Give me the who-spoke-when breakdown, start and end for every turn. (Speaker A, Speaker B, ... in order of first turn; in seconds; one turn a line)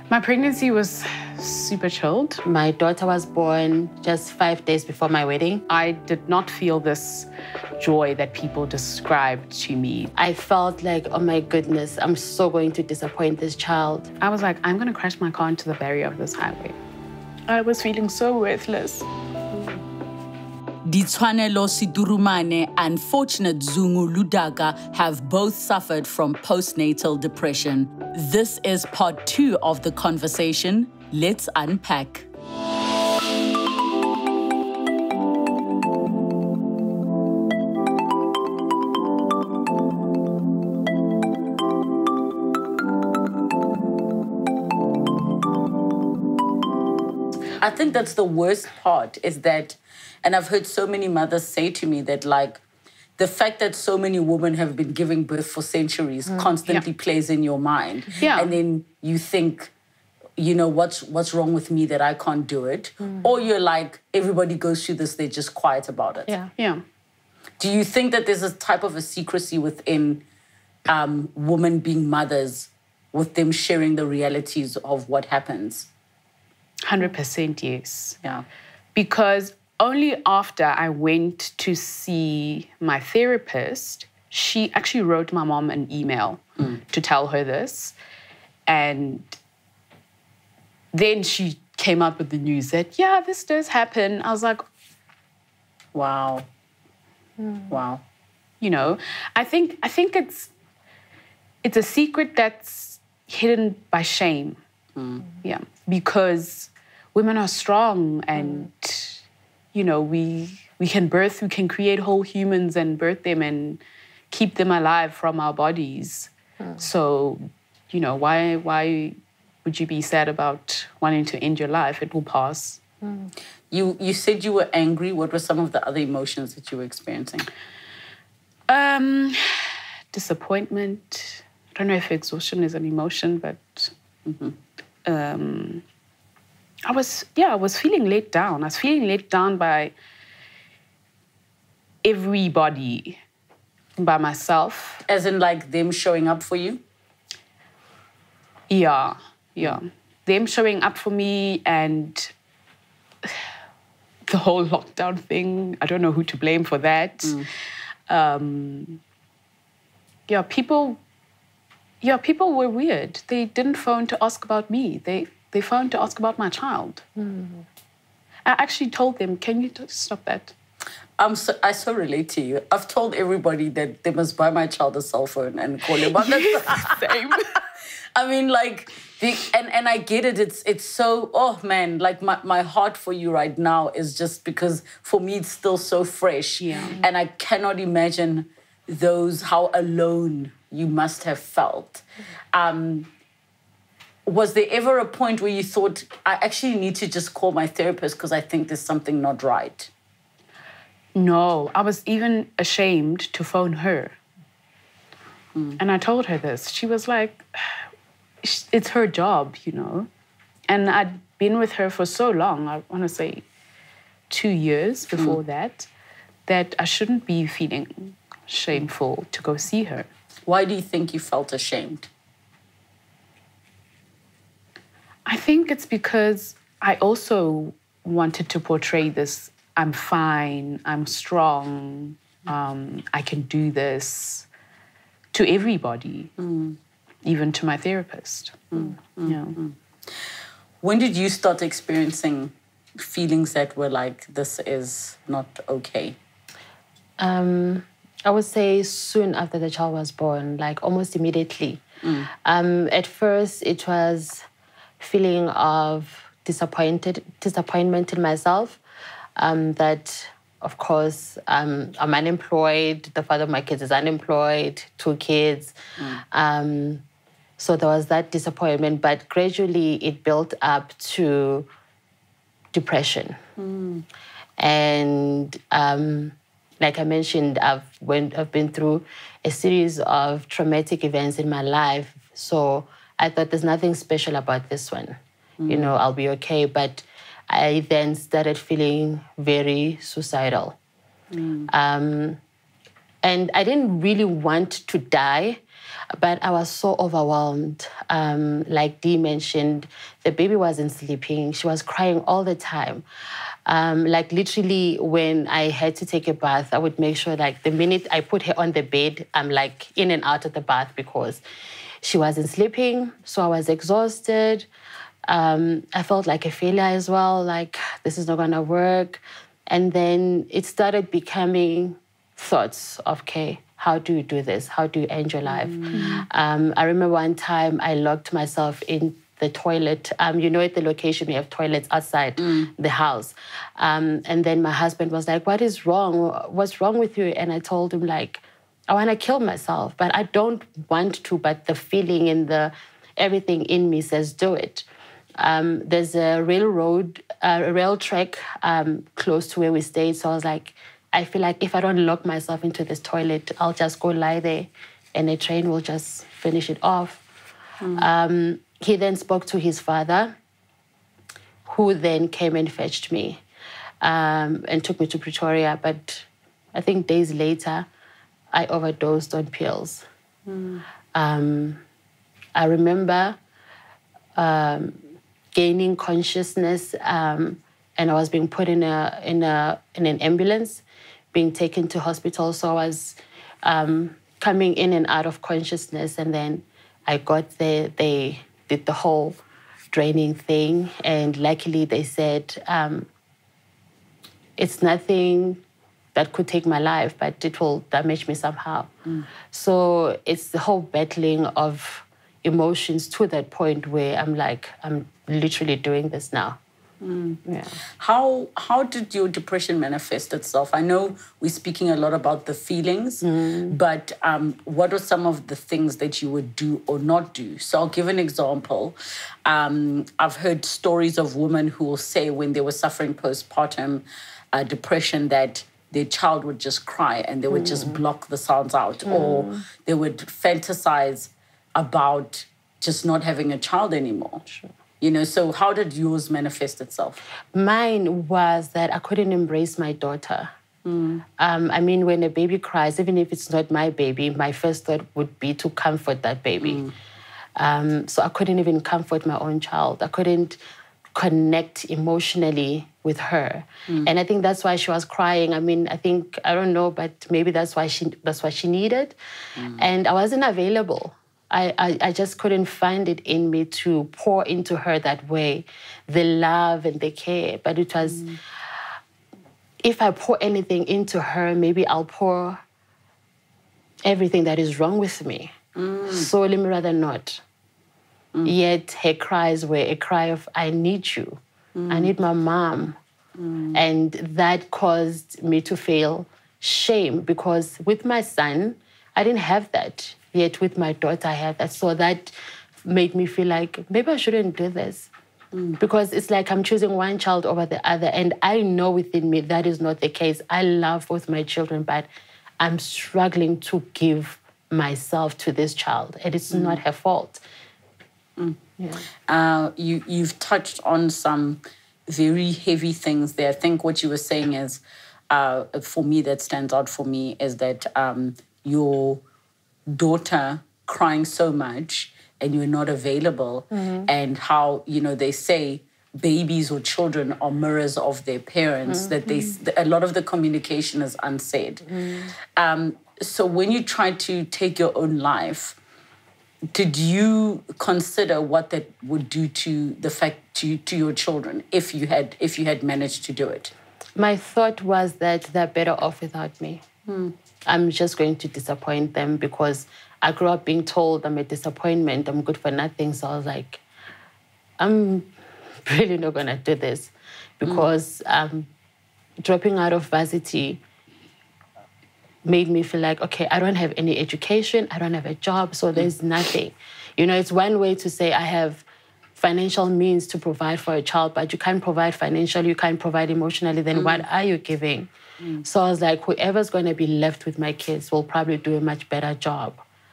Speaker A: 0.1-2.4
Speaker B: 2.4-5.6
Speaker A: 5.7-7.3
Speaker A: 7.8-10.1
Speaker B: 10.2-14.1
Speaker A: 14.2-16.8
Speaker A: 17.5-19.1
Speaker C: 20.8-32.3
Speaker C: 47.6-52.6
Speaker C: 53.2-59.7
Speaker A: 58.2-58.5
Speaker C: 60.4-66.4
Speaker A: 66.6-66.8
Speaker C: 67.6-70.2
Speaker C: 70.9-75.9
Speaker A: 76.8-78.2
Speaker A: 79.0-88.0
Speaker A: 88.7-89.4
Speaker A: 90.9-94.6
Speaker C: 95.9-96.5
Speaker C: 97.7-98.0
Speaker A: 98.6-100.5
Speaker A: 101.6-104.6
Speaker C: 105.0-105.2
Speaker A: 105.4-122.8
Speaker C: 123.7-127.5
Speaker A: 128.7-133.9
Speaker C: 134.2-134.5
Speaker A: 135.0-135.8
Speaker A: 136.8-139.9
Speaker A: 142.0-143.2
Speaker A: 144.0-145.0
Speaker C: 145.1-146.8
Speaker A: 148.7-152.3
Speaker A: 154.3-157.5
Speaker A: 158.1-159.0
Speaker A: 160.3-161.0
Speaker A: 162.0-167.1
Speaker B: 167.2-167.6
Speaker A: 168.5-170.5
Speaker C: 171.2-177.6
Speaker A: 176.0-177.6
Speaker C: 178.2-193.1
Speaker A: 186.6-187.0
Speaker C: 194.2-199.9
Speaker A: 201.2-204.2
Speaker A: 205.8-207.8
Speaker A: 208.4-210.1
Speaker A: 210.7-213.4
Speaker A: 214.3-215.9
Speaker A: 216.5-220.1
Speaker C: 220.5-222.1
Speaker A: 225.2-234.5
Speaker A: 235.3-236.3
Speaker C: 236.4-236.8
Speaker A: 237.2-238.6
Speaker C: 238.7-239.8
Speaker A: 239.2-239.6
Speaker C: 240.8-246.2
Speaker B: 247.2-254.4
Speaker C: 252.0-252.3
Speaker B: 255.0-258.8
Speaker B: 259.4-267.0
Speaker B: 267.6-271.7
Speaker B: 272.7-273.4
Speaker C: 273.6-274.0
Speaker B: 274.6-285.2
Speaker C: 285.6-285.9
Speaker B: 285.7-290.8
Speaker C: 291.3-291.7
Speaker B: 291.7-292.4
Speaker B: 293.2-295.6
Speaker B: 296.1-303.0
Speaker B: 303.6-311.4
Speaker B: 312.0-314.7
Speaker B: 315.2-344.9
Speaker C: 325.5-326.2
Speaker A: 325.9-326.2
Speaker C: 332.4-332.7
Speaker B: 345.4-357.2
Speaker B: 357.9-360.3
Speaker B: 361.6-363.4
Speaker B: 364.0-367.9
Speaker B: 368.5-370.0
Speaker C: 370.5-370.8
Speaker B: 371.1-371.8
Speaker B: 372.5-373.4
Speaker B: 374.4-375.0
Speaker B: 375.5-389.4
Speaker B: 389.9-393.1
Speaker B: 394.6-395.6
Speaker B: 396.1-398.9
Speaker B: 399.5-406.6
Speaker C: 407.0-407.4
Speaker B: 407.4-407.8
Speaker C: 408.0-434.4
Speaker B: 413.2-413.8
Speaker B: 427.5-428.0
Speaker B: 429.1-429.6
Speaker C: 435.0-437.2
Speaker B: 437.5-440.5
Speaker C: 440.9-441.2
Speaker B: 441.4-446.8
Speaker C: 446.6-446.9
Speaker B: 447.6-450.6
Speaker B: 451.1-459.1
Speaker C: 459.6-459.8
Speaker B: 459.8-468.4
Speaker B: 469.8-472.6
Speaker B: 474.0-475.5
Speaker C: 475.7-476.3
Speaker B: 476.1-477.4
Speaker B: 478.4-482.9
Speaker C: 481.7-482.1
Speaker C: 483.4-483.8
Speaker B: 483.7-495.1
Speaker C: 495.5-495.8
Speaker B: 495.8-502.1
Speaker B: 502.6-507.4
Speaker C: 506.5-506.8
Speaker C: 509.3-519.2
Speaker C: 519.9-535.8
Speaker B: 523.8-524.1
Speaker B: 528.9-529.1
Speaker B: 532.0-532.3
Speaker C: 536.7-543.7
Speaker B: 544.1-546.8
Speaker C: 547.1-547.3
Speaker B: 547.6-553.8
Speaker B: 554.8-555.3
Speaker B: 555.9-558.7
Speaker B: 559.4-560.8
Speaker B: 562.4-568.8
Speaker B: 569.4-575.1
Speaker C: 573.9-574.2
Speaker B: 575.6-579.8